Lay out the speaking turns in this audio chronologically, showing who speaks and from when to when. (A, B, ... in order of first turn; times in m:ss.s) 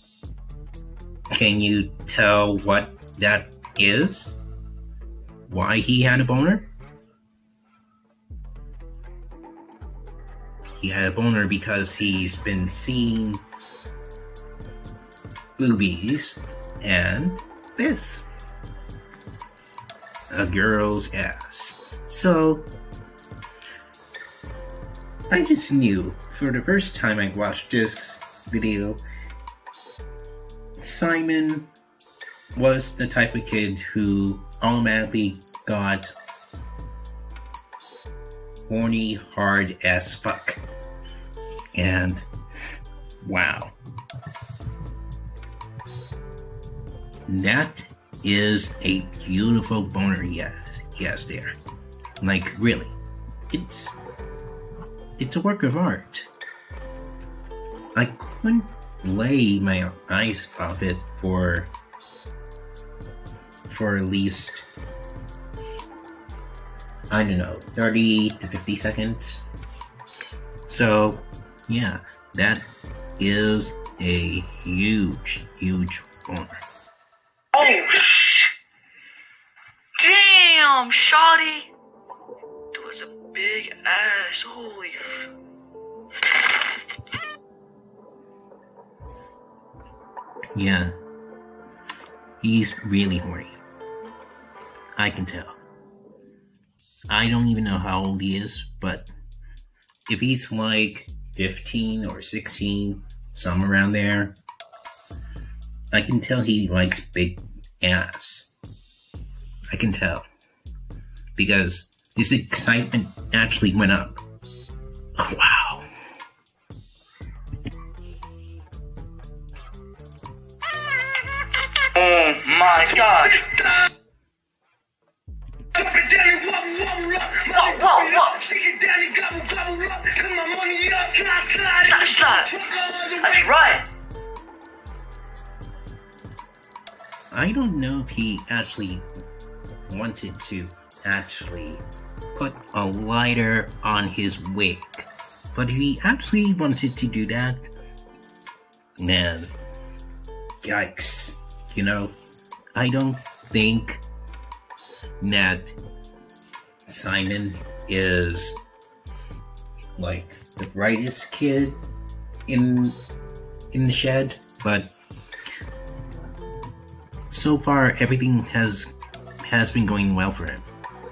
0:01.3-0:04.4 A
0:05.5-0:06.7 A
0:10.8-0:13.4 A
0:15.6-0:18.3 A
0:20.3-0:22.7 A
0:25.3-0:29.0 A
0:30.8-0:31.7 A
0:32.6-0:36.1 A
0:38.7-0:40.6 A
0:41.7-0:42.2 A
0:43.2-0:43.8 A
0:47.3-0:51.5 A
0:52.2-0:53.0 A
0:53.5-0:54.0 A
0:55.2-0:56.3 A
0:58.0-1:01.7 A
1:03.7-1:04.7 A
1:07.1-1:09.4 A
1:10.7-1:12.7 A
1:13.2-1:16.6 A
1:17.5-1:18.5 B
1:20.0-1:21.7 B
1:22.7-1:25.3 B
1:26.3-1:26.6 B
1:30.6-1:30.9 A
1:32.4-1:33.6 A
1:35.0-1:35.6 A
1:37.1-1:39.1 A
1:40.1-1:44.4 A
1:45.9-1:48.5 A
1:49.7-1:50.2 A
1:51.4-1:54.2 A
1:55.2-1:55.8 A
2:01.8-2:03.5 B
2:02.9-2:03.9 C
2:05.7-2:13.6 C
2:07.5-2:08.4 B
2:11.8-2:12.6 B
2:13.2-2:13.9 B
2:17.3-2:19.1 A
2:19.9-2:27.7 A
2:29.0-2:29.5 A
2:30.6-2:32.2 A
2:32.8-2:34.0 A
2:35.2-2:35.8 A
2:36.9-2:38.6 A
2:40.0-2:41.8 A
2:42.5-2:43.0 A
2:43.7-2:44.9 A
2:47.3-2:48.9 A
2:49.4-2:50.7 A